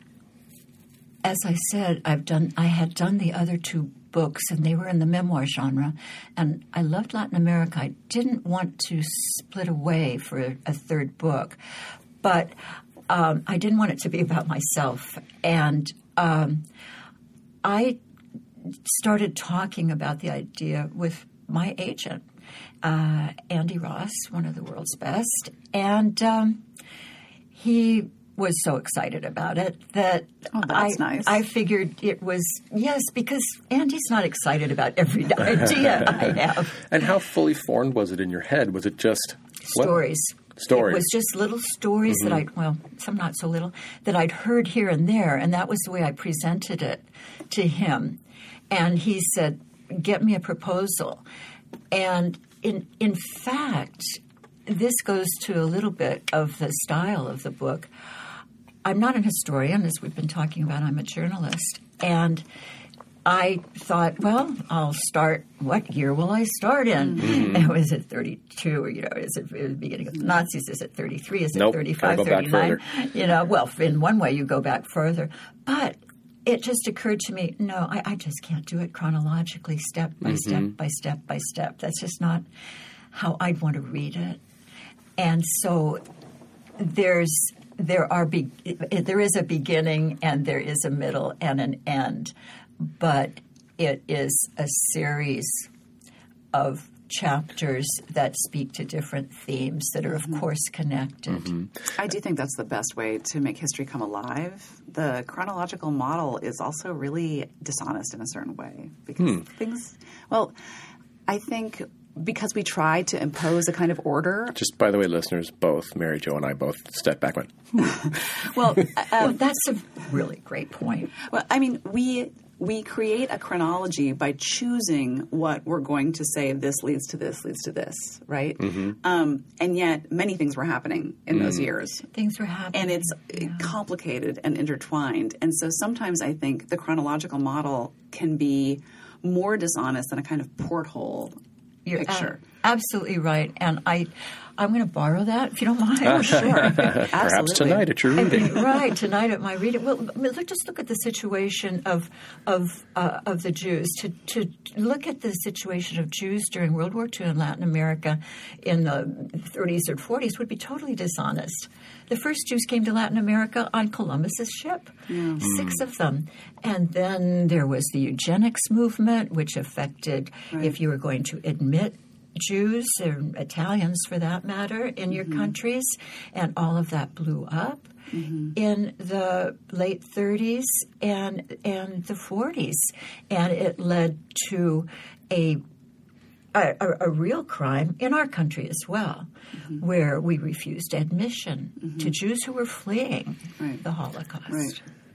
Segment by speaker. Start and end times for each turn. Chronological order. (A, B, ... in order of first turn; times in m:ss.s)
0:01.2-0:11.6 A
0:12.2-0:12.5 A
0:13.1-0:16.6 A
0:17.6-0:18.0 A
0:18.7-0:22.2 A
0:22.8-0:26.6 A
0:27.5-0:36.8 A
0:30.5-0:31.4 B
0:36.7-0:39.9 C
0:39.6-0:48.2 A
0:40.6-0:41.0 C
0:48.7-0:51.2 A
0:51.9-0:57.9 A
0:58.8-1:02.4 A
1:03.2-1:22.4 A
1:11.5-1:12.8 C
1:20.3-1:20.6 C
1:23.1-1:24.4 A
1:25.2-1:26.0 A
1:26.8-1:35.7 A
1:36.5-1:41.6 A
1:41.9-1:50.5 B
1:51.3-1:54.6 B
1:54.5-1:58.1 C
1:58.0-1:59.4 B
1:59.1-2:01.1 A
2:01.2-2:12.1 B
2:12.1-2:13.7 A
2:12.7-2:21.4 B
2:21.8-2:27.1 A
2:21.9-2:22.4 B
2:26.1-2:28.6 C
2:26.5-2:28.4 B
2:28.1-2:57.9 A
2:45.1-2:45.4 B
2:58.1-2:58.5 B
2:58.5-3:05.6 A
3:06.5-3:14.8 A
3:14.5-3:14.7 B